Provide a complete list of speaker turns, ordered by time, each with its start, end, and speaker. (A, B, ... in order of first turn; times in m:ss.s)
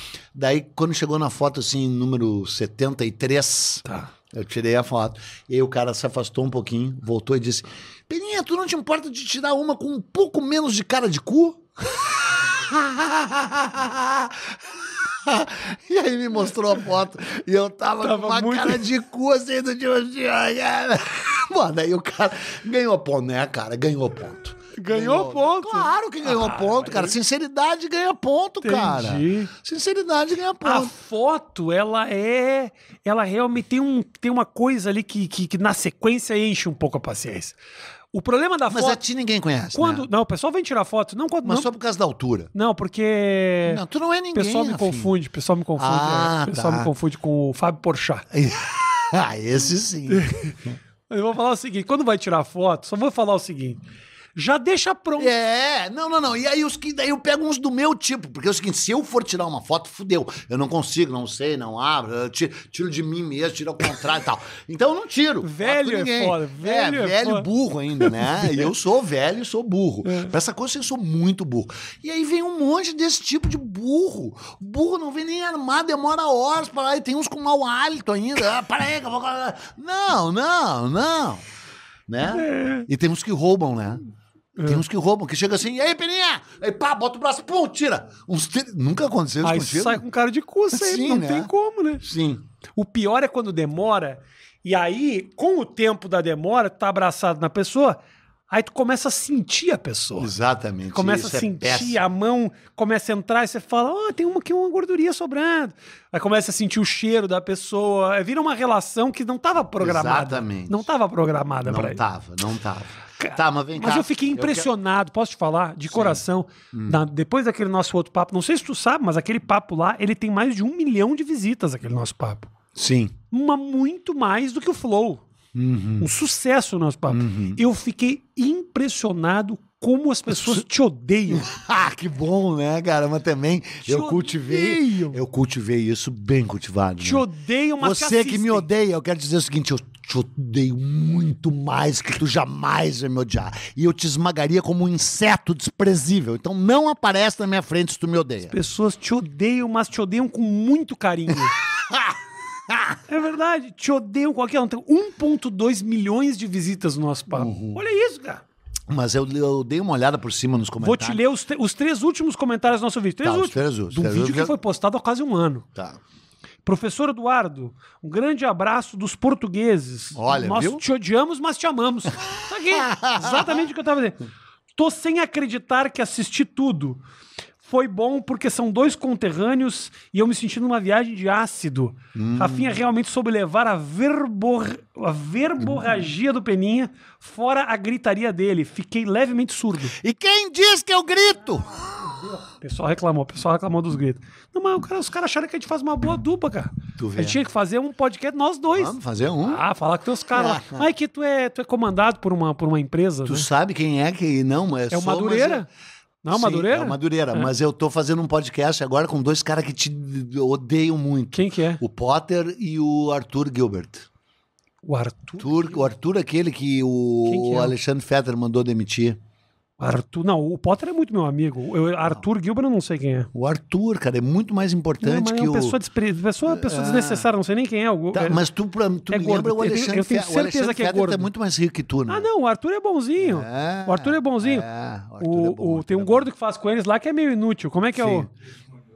0:00.3-0:30.9 A
0:18.0-0:18.8 B
0:24.8-0:27.2 B
0:28.6-0:29.5 B
0:30.6-0:37.6 B
0:38.1-0:39.0 B
0:38.7-0:40.1 A
0:39.7-0:41.7 B
0:41.4-0:42.5 A
0:42.5-0:43.8 B
0:43.6-0:45.1 A
0:44.3-0:48.3 B
0:45.8-0:46.9 A
0:48.3-0:50.3 A
0:50.1-0:53.8 B
0:54.4-0:55.3 B
0:55.2-1:21.4 A
1:05.4-1:07.5 B
1:08.0-1:08.7 B
1:10.0-1:10.3 B
1:22.1-1:24.0 A
1:22.3-1:22.9 B
1:24.6-1:24.8 B
1:24.6-1:30.0 A
1:29.4-1:32.1 B
1:30.7-1:32.4 A
1:32.8-1:38.0 B
1:38.5-1:40.3 B
1:40.2-1:42.0 A
1:40.9-1:52.0 B
1:49.8-1:50.9 A
1:51.6-1:54.7 A
1:53.2-2:02.5 B
1:55.9-1:56.2 A
1:56.7-1:57.0 A
2:02.8-2:03.1 A
2:03.3-2:05.2 B
2:05.6-2:06.1 A
2:06.0-2:11.5 B
2:07.1-2:07.6 A
2:10.3-2:10.6 A
2:11.3-2:17.3 A
2:13.8-2:15.2 B
2:17.0-2:18.7 B
2:17.8-2:28.5 A
2:28.5-2:31.6 B
2:31.6-2:33.0 A
2:33.1-2:38.4 B
2:37.3-2:37.8 A
2:38.9-2:41.2 A
2:40.8-2:45.7 B
2:43.2-2:44.6 A
2:46.6-2:54.2 B
2:50.1-2:50.8 A
2:52.7-2:53.7 A
2:54.8-2:57.0 B
2:57.6-3:10.0 B
3:02.1-3:02.8 A
3:09.9-3:12.0 A
3:12.6-3:23.5 B
3:17.0-3:17.4 A
3:18.7-3:19.6 A
3:20.3-3:20.9 A
3:23.3-3:25.6 A
3:24.9-3:25.7 B
3:26.2-3:27.5 B
3:26.3-3:34.1 A
3:31.3-3:31.8 B
3:34.8-3:35.7 B
3:35.4-3:39.2 A
3:37.2-3:37.7 B
3:39.8-3:43.3 B
3:43.3-3:45.8 A
3:45.0-3:48.4 B
3:46.4-3:47.3 A
3:48.1-3:52.3 A
3:49.1-3:51.3 B
3:52.1-3:54.7 B
3:53.2-3:56.3 A
3:55.2-3:58.3 B
3:57.9-3:58.3 A